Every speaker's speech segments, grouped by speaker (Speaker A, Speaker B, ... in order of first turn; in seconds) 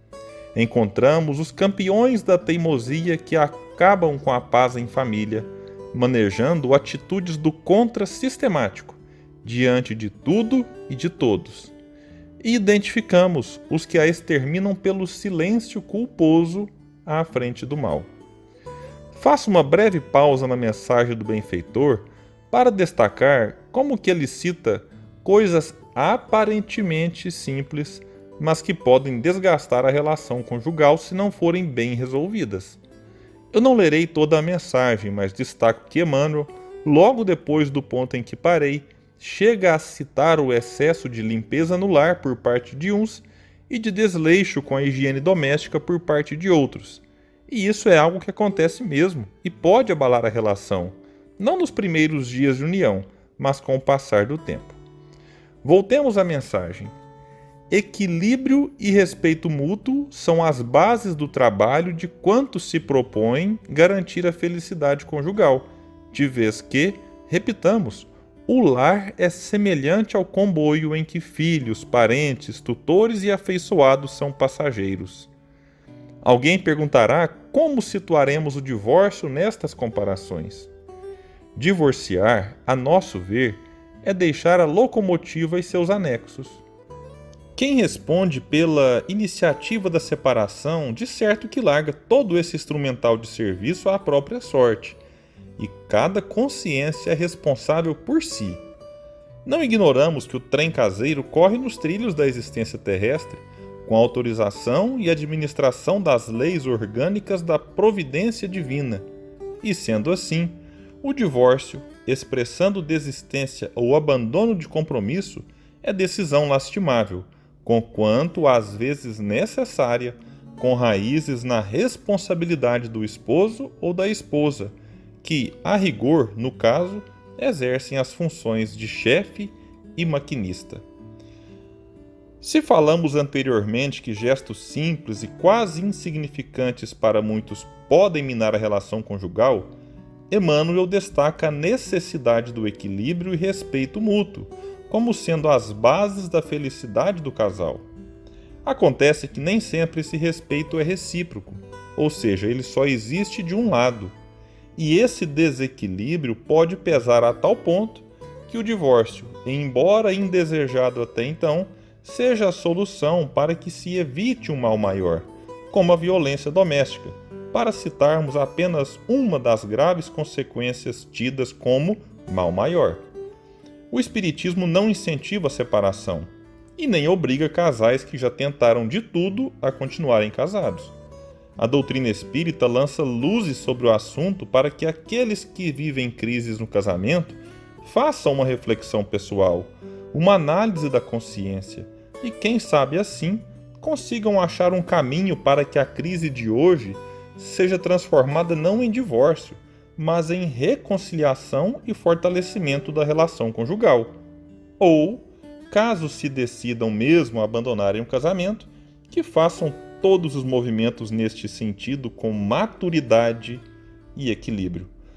Speaker A: 0.5-11.7, 12.4-18.1, 19.1-32.8, 33.5-54.8, 55.6-56.9, 57.7-75.3, 76.2-80.7, 81.5-86.6, 87.5-95.0, 95.6-98.6, 99.4-109.0, 109.6-130.8, 132.4-139.7, 140.3-147.9, 148.6-154.1, 154.8-173.1, 173.9-180.9, 181.6-204.2, 204.8-214.9